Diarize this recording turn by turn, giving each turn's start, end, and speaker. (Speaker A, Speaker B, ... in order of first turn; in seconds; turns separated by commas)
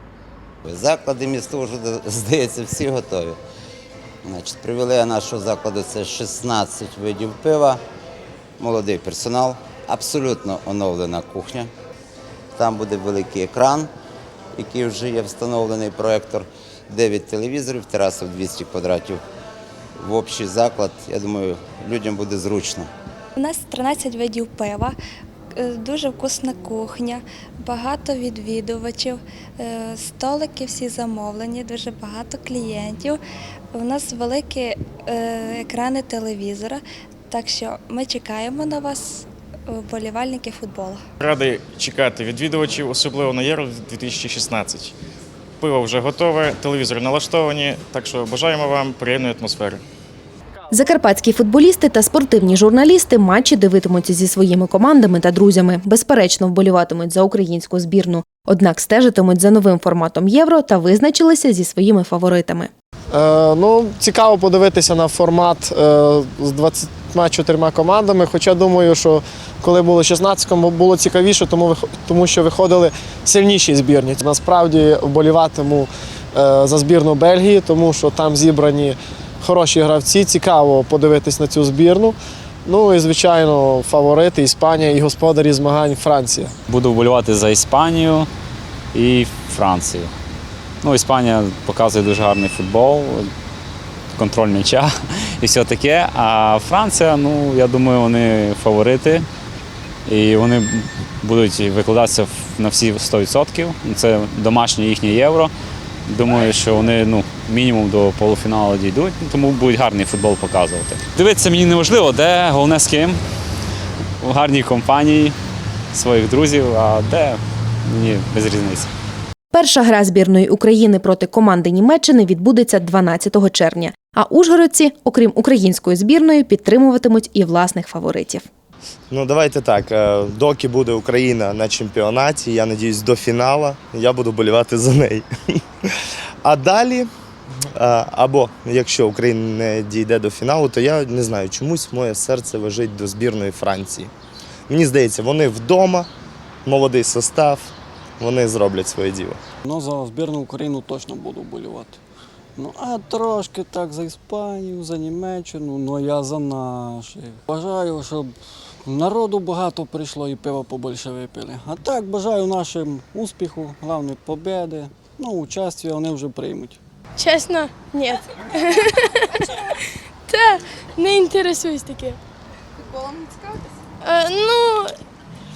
Speaker A: 0.6-3.4, Speaker A: 4.2-7.8, Speaker A: 8.6-11.7, Speaker A: 12.6-13.9, Speaker A: 14.5-19.2, Speaker A: 20.0-22.9, Speaker B: 23.4-24.9, Speaker B: 25.6-33.2, Speaker B: 33.7-41.0, Speaker C: 41.2-44.9, Speaker C: 45.6-49.8, Speaker D: 50.7-62.7, Speaker E: 63.1-82.1, Speaker E: 82.7-86.5, Speaker F: 86.7-88.3, Speaker F: 88.9-90.1, Speaker F: 90.8-93.3, Speaker F: 94.2-99.2, Speaker F: 100.1-105.5, Speaker F: 106.1-113.2, Speaker F: 114.2-115.3, Speaker F: 115.9-118.9, Speaker D: 119.5-128.4, Speaker G: 129.1-135.3, Speaker G: 136.4-137.1, Speaker G: 137.8-144.1, Speaker G: 144.7-146.1, Speaker G: 146.7-149.4, Speaker H: 149.7-152.0, Speaker H: 152.6-158.3, Speaker H: 158.8-166.8, Speaker I: 167.2-169.5, Speaker I: 170.3-172.2, Speaker I: 174.0-174.9